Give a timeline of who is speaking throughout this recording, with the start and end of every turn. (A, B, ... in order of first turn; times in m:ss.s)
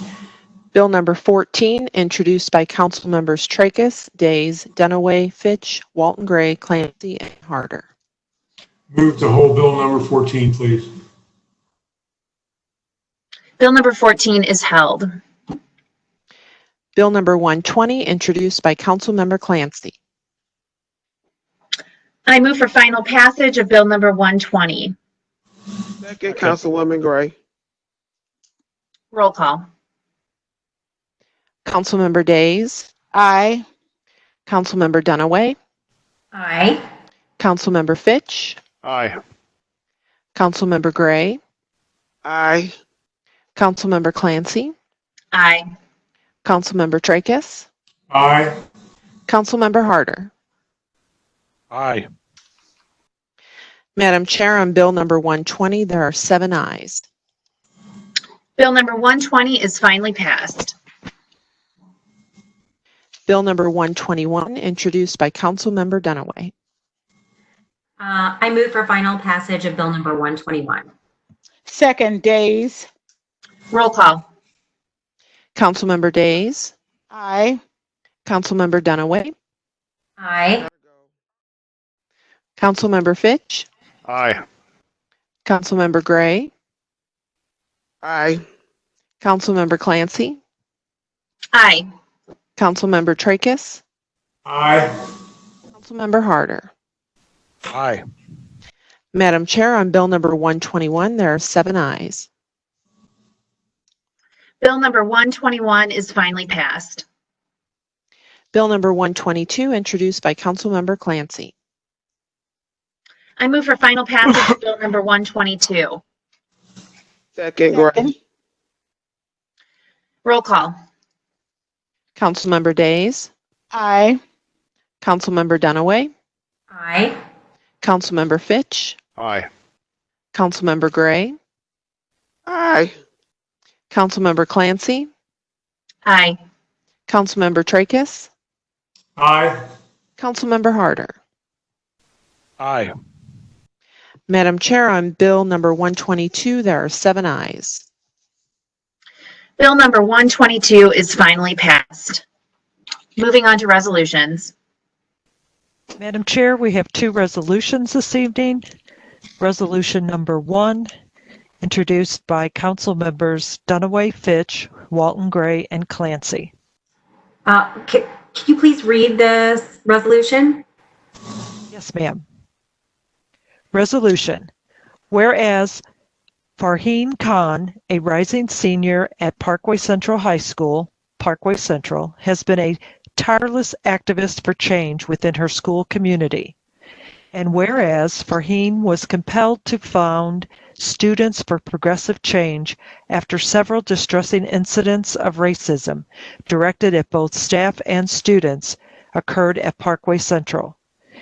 0:00.7-0:07.9 A
0:08.9-0:10.9 B
0:13.6-0:15.1 C
0:17.0-0:20.0 A
0:22.2-0:24.9 C
0:26.0-0:27.3 D
0:29.1-0:29.6 C
0:31.6-0:32.9 A
0:33.1-0:33.6 E
0:34.4-0:35.6 A
0:36.3-0:36.8 F
0:37.4-0:38.6 A
0:38.8-0:39.2 G
0:40.4-0:41.4 A
0:42.2-0:42.8 D
0:43.6-0:44.7 A
0:45.3-0:45.6 C
0:46.4-0:47.6 A
0:48.1-0:48.5 B
0:49.3-0:50.3 A
0:51.7-0:52.0 G
0:54.0-0:57.0 A
0:58.6-1:00.7 C
1:03.3-1:06.5 A
1:08.0-1:10.9 F
1:11.7-1:12.8 E
1:13.7-1:14.2 C
1:15.6-1:16.7 A
1:17.1-1:17.6 E
1:18.2-1:19.3 A
1:20.2-1:20.7 F
1:22.6-1:23.6 A
1:24.1-1:24.4 G
1:25.4-1:26.5 A
1:28.0-1:28.4 D
1:29.2-1:30.4 A
1:31.5-1:31.8 C
1:32.6-1:33.8 A
1:34.4-1:34.9 B
1:35.7-1:36.7 A
1:37.7-1:38.0 G
1:39.1-1:42.3 A
1:44.6-1:47.0 C
1:48.5-1:51.5 A
1:53.4-1:56.0 C
1:57.4-1:58.1 D
1:57.7-1:58.1 E
2:00.2-2:00.7 C
2:02.2-2:03.3 A
2:03.7-2:04.2 E
2:05.0-2:06.1 A
2:06.7-2:07.2 F
2:07.8-2:09.0 A
2:09.2-2:09.5 G
2:10.3-2:11.4 A
2:12.5-2:13.0 D
2:13.9-2:15.1 A
2:16.0-2:16.4 C
2:17.1-2:18.3 A
2:19.2-2:19.6 B
2:20.2-2:21.2 A
2:22.6-2:22.9 G
2:24.3-2:27.8 A
2:29.6-2:32.2 C
2:33.2-2:34.5 C
2:36.0-2:38.6 H
2:39.4-2:40.9 H
2:41.6-2:46.5 H
2:47.4-2:50.6 F
2:51.7-2:52.2 H
2:53.7-2:54.5 H
2:55.1-2:55.8 H
2:56.6-3:06.5 H
3:07.3-3:20.8 H